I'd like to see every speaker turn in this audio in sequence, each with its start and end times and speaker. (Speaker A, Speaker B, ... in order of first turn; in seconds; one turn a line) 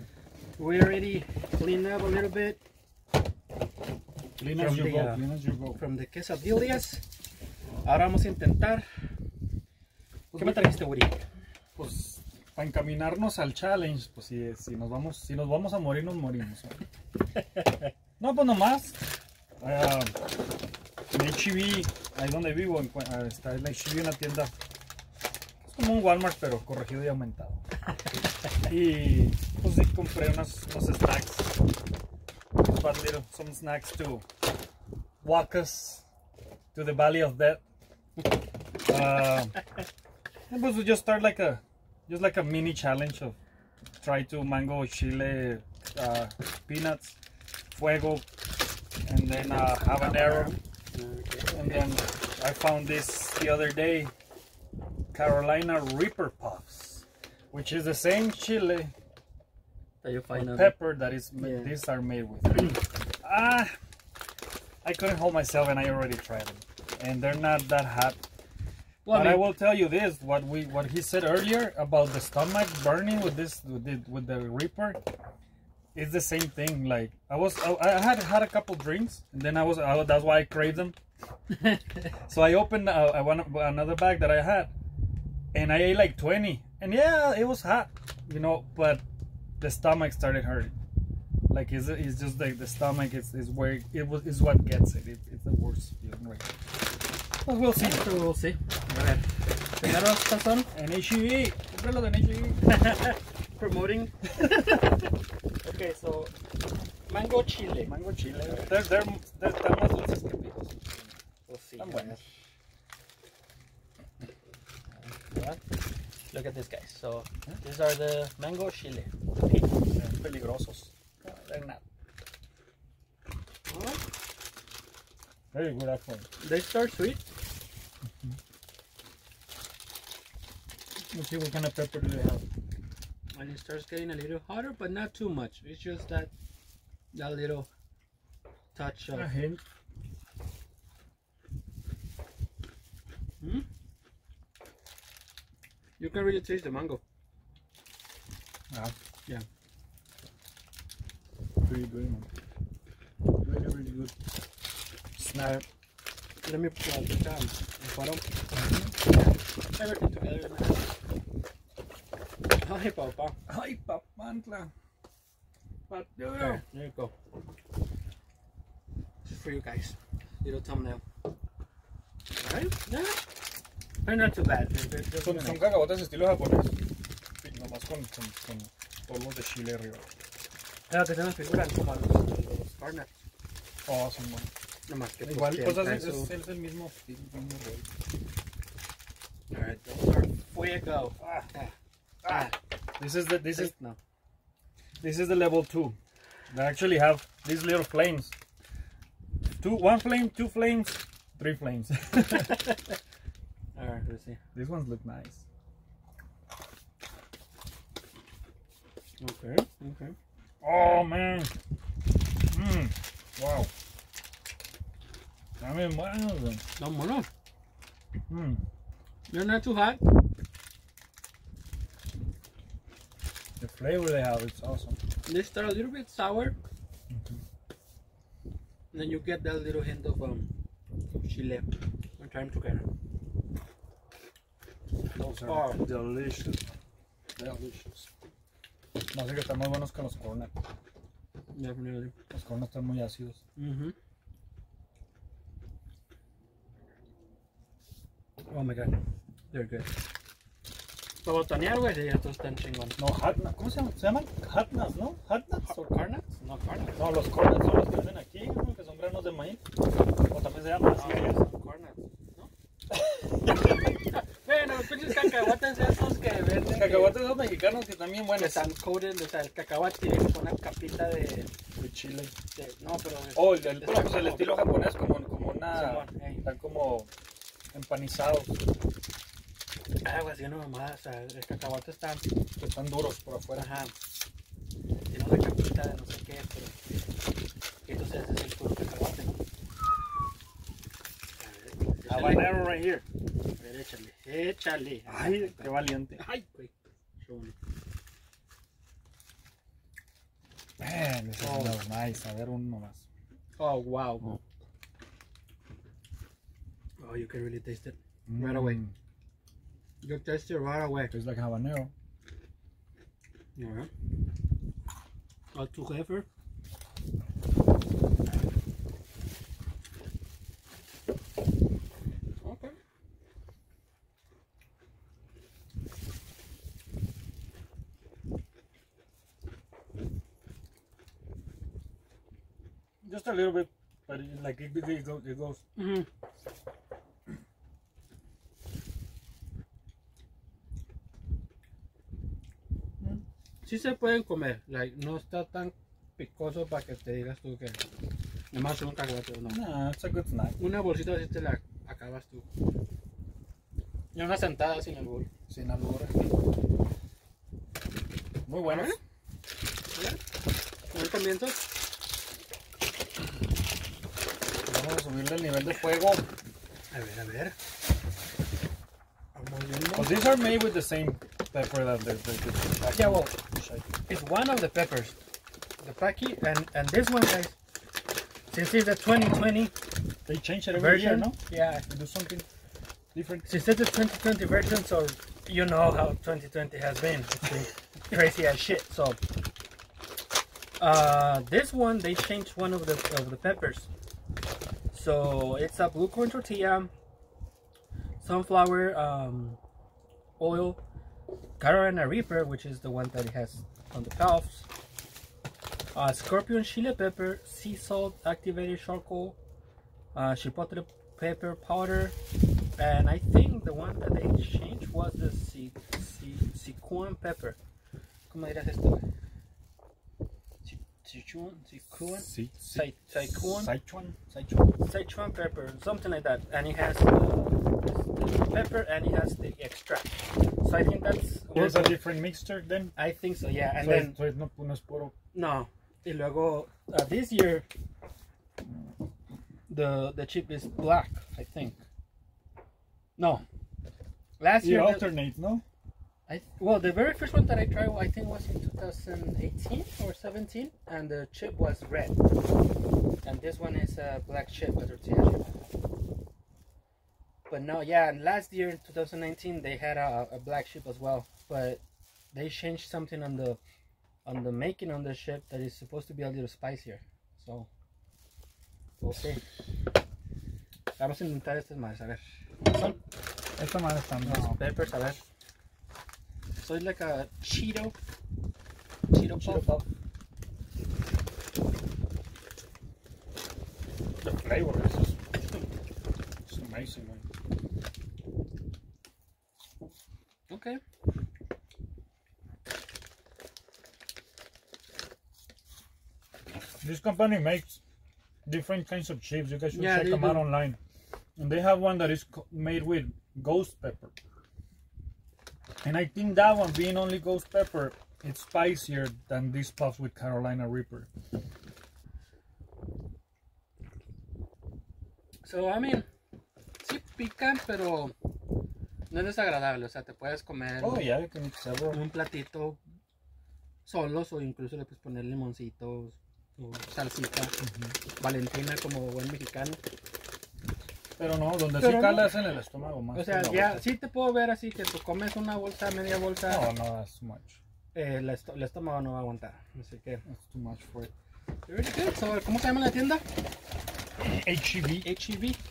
Speaker A: 0.6-2.6
Speaker B: 4.4-5.8
Speaker A: 4.5-5.2
Speaker A: 5.7-7.0
Speaker A: 7.8-8.8
Speaker B: 10.3-10.7
Speaker A: 10.3-11.2
Speaker B: 11.8-16.8
Speaker A: 17.4-17.9
Speaker B: 18.2-19.0
Speaker B: 19.6-20.2
Speaker B: 21.1-24.5
Speaker B: 25.6-27.6
Speaker B: 28.6-31.5
Speaker B: 32.6-34.2
Speaker B: 35.2-36.0
Speaker B: 36.7-37.6
Speaker B: 38.8-39.5
Speaker B: 40.5-43.4
Speaker B: 44.0-47.2
Speaker B: 47.7-48.2
Speaker B: 49.0-50.5
Speaker A: 49.6-51.9
Speaker B: 51.5-54.1
Speaker B: 55.1-58.9
Speaker A: 60.0-60.8
Speaker B: 60.3-63.7
Speaker A: 61.4-61.7
Speaker B: 64.8-68.2
Speaker A: 69.0-69.4
Speaker B: 69.1-75.0
Speaker B: 75.9-81.0
Speaker A: 81.5-82.1
Speaker B: 82.3-84.7
Speaker B: 85.5-89.0
Speaker B: 89.6-90.8
Speaker B: 91.5-96.5
Speaker B: 97.4-98.0
Speaker A: 97.8-99.2
Speaker A: 99.8-100.7
Speaker B: 100.7-102.7
Speaker A: 102.7-105.0
Speaker B: 104.4-104.7
Speaker A: 105.6-106.3
Speaker A: 107.1-107.9
Speaker B: 107.8-111.2
Speaker A: 108.4-108.7
Speaker A: 111.5-112.2
Speaker B: 111.8-112.2
Speaker A: 114.9-115.6
Speaker A: 116.3-119.7
Speaker B: 120.0-121.8
Speaker A: 123.7-124.0
Speaker B: 125.5-126.3
Speaker A: 126.4-127.2
Speaker B: 131.1-132.5
Speaker A: 133.3-136.3
Speaker A: 137.1-137.7
Speaker A: 138.7-139.3
Speaker B: 139.1-139.6
Speaker A: 146.0-147.0
Speaker B: 151.6-152.3
Speaker B: 153.4-154.1
Speaker B: 155.2-155.6
Speaker A: 156.4-158.2
Speaker B: 158.5-158.9
Speaker A: 159.1-160.9
Speaker A: 162.6-163.4
Speaker B: 163.5-164.7
Speaker B: 165.9-166.6
Speaker A: 166.3-167.1
Speaker A: 169.2-171.0
Speaker A: 172.4-173.2
Speaker A: 174.0-175.7
Speaker B: 175.1-176.8
Speaker B: 177.4-180.1
Speaker A: 180.9-183.1
Speaker B: 183.9-184.5
Speaker A: 184.9-186.3
Speaker B: 185.2-187.9
Speaker A: 189.5-191.7
Speaker B: 191.2-191.5
Speaker B: 192.2-193.7
Speaker A: 192.2-192.5
Speaker A: 193.5-194.0
Speaker B: 195.0-195.9
Speaker B: 196.5-198.3
Speaker B: 199.5-202.6
Speaker A: 202.2-202.9
Speaker A: 203.7-204.4
Speaker B: 204.5-205.4
Speaker A: 209.2-210.2
Speaker B: 210.6-211.5
Speaker B: 212.5-213.7
Speaker B: 215.6-216.6
Speaker A: 216.8-217.3
Speaker B: 218.3-218.6
Speaker A: 219.3-220.0
Speaker B: 223.6-225.0
Speaker A: 225.3-226.5
Speaker B: 227.1-227.4
Speaker A: 228.9-230.5
Speaker A: 231.1-232.8
Speaker B: 235.1-236.7
Speaker A: 235.4-235.8
Speaker B: 237.3-238.1
Speaker B: 239.1-240.5
Speaker A: 241.5-242.1
Speaker B: 242.3-243.4
Speaker A: 243.6-243.9
Speaker A: 248.5-248.9
Speaker A: 249.5-249.9
Speaker A: 251.2-252.9
Speaker B: 253.0-255.7
Speaker A: 255.6-257.0
Speaker B: 256.9-259.6
Speaker B: 260.3-261.4
Speaker A: 260.9-262.5
Speaker B: 262.9-263.9
Speaker A: 264.1-267.1
Speaker B: 265.0-265.5
Speaker B: 266.6-268.7
Speaker A: 268.3-271.5
Speaker B: 271.8-272.3
Speaker A: 272.5-274.6
Speaker B: 273.3-277.1
Speaker A: 275.7-276.4
Speaker B: 277.7-278.6
Speaker A: 280.0-282.3
Speaker B: 282.6-283.7
Speaker A: 283.6-283.9
Speaker A: 285.1-286.7
Speaker A: 287.9-289.4
Speaker A: 291.4-292.6
Speaker B: 292.0-293.0
Speaker A: 293.6-297.5
Speaker B: 295.1-296.2
Speaker B: 300.8-303.0
Speaker A: 301.4-301.8
Speaker A: 303.6-304.3
Speaker A: 307.0-308.8
Speaker B: 308.3-308.9
Speaker A: 310.0-311.1
Speaker B: 311.1-311.9
Speaker A: 313.6-313.9
Speaker A: 315.5-316.2
Speaker A: 322.4-322.7
Speaker B: 333.0-335.6
Speaker A: 335.8-336.1
Speaker A: 343.6-347.8
Speaker A: 348.5-349.6
Speaker B: 349.5-350.6
Speaker A: 350.6-352.4
Speaker A: 354.1-355.3
Speaker B: 355.5-356.1
Speaker B: 358.4-359.0
Speaker A: 358.6-359.0
Speaker A: 360.9-361.6
Speaker B: 364.6-366.2
Speaker A: 366.9-367.5
Speaker A: 369.3-370.2
Speaker B: 369.9-373.9
Speaker A: 372.9-373.3
Speaker A: 374.1-375.2
Speaker A: 375.8-377.6
Speaker A: 378.5-379.7
Speaker B: 380.2-382.4
Speaker A: 380.7-381.8
Speaker B: 383.1-383.5
Speaker A: 383.4-389.2
Speaker A: 390.8-393.9
Speaker A: 394.9-396.9
Speaker A: 398.2-399.6
Speaker A: 400.4-400.8
Speaker A: 401.6-404.7
Speaker A: 405.9-409.4
Speaker A: 410.1-412.1
Speaker A: 412.8-417.6
Speaker A: 418.3-419.0
Speaker A: 420.6-423.7
Speaker B: 422.1-424.7
Speaker A: 424.8-432.0
Speaker B: 431.5-432.9
Speaker A: 432.9-434.1
Speaker B: 433.8-435.1
Speaker A: 435.3-437.6
Speaker A: 439.7-441.8
Speaker A: 443.2-443.4
Speaker A: 444.4-445.1
Speaker B: 444.6-445.6
Speaker A: 446.3-452.2
Speaker A: 453.2-455.7
Speaker A: 457.5-461.8
Speaker A: 462.3-463.6
Speaker A: 464.2-467.7
Speaker A: 469.0-469.4
Speaker A: 471.0-473.0
Speaker B: 473.6-474.6
Speaker A: 474.2-475.2
Speaker A: 476.6-477.9
Speaker A: 479.1-479.7
Speaker B: 479.3-479.8
Speaker B: 484.2-485.2
Speaker B: 486.4-487.2
Speaker A: 490.5-490.8
Speaker B: 496.8-497.8
Speaker B: 498.4-500.8
Speaker A: 499.7-500.4
Speaker B: 501.4-504.1
Speaker B: 505.8-511.1
Speaker A: 515.4-516.1
Speaker A: 516.8-518.1
Speaker A: 519.1-521.1
Speaker B: 520.8-522.0
Speaker A: 521.9-522.8
Speaker A: 523.9-527.5
Speaker B: 527.6-527.9
Speaker A: 528.2-529.8
Speaker B: 531.2-533.9
Speaker A: 531.8-532.3
Speaker A: 533.1-536.7
Speaker B: 536.5-537.6
Speaker A: 537.9-540.2
Speaker B: 540.2-541.1
Speaker A: 541.7-543.2
Speaker B: 544.2-545.1
Speaker A: 545.0-545.6